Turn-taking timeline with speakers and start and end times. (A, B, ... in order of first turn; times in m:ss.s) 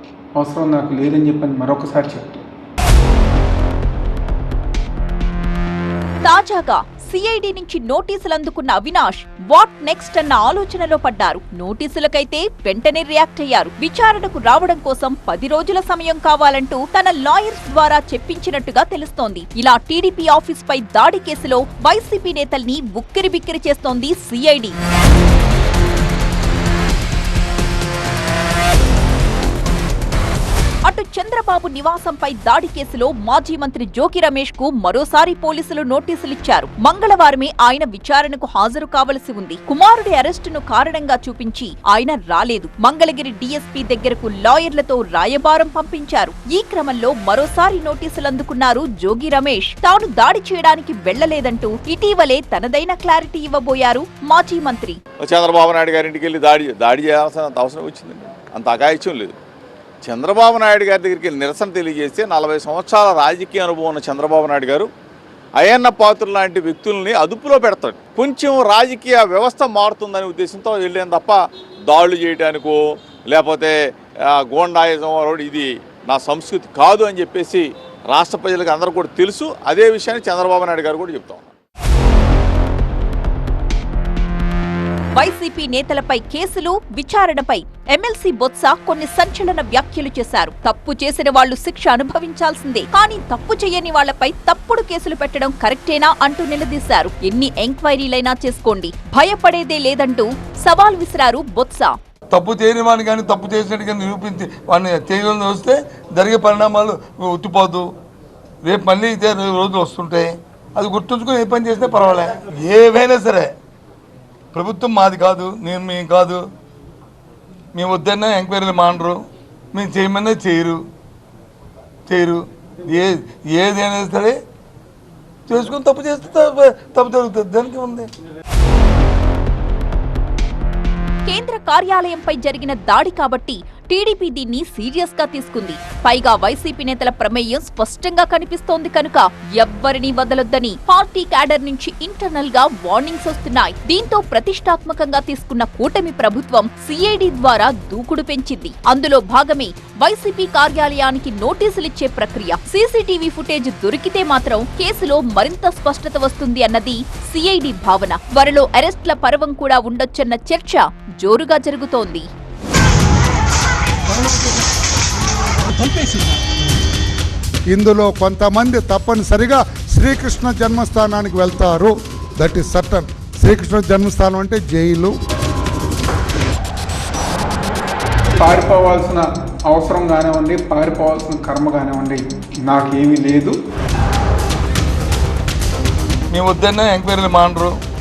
0:00.4-0:02.4 A
0:06.2-0:24.7 B
0:30.9-0:55.0 B
0:55.2-0:59.3 C
1:00.0-1:04.9 C
1:05.6-1:21.5 C
1:25.2-1:42.0 B
1:42.3-1:47.9 D
1:48.6-1:53.5 D
1:54.5-1:56.4 D
1:57.7-1:59.2 D
1:59.7-2:00.8 D
2:02.1-2:04.4 D
2:05.5-2:08.1 D
2:11.2-2:42.2 B
2:47.7-2:55.1 E
2:58.4-3:03.6 A
3:06.3-3:07.8 D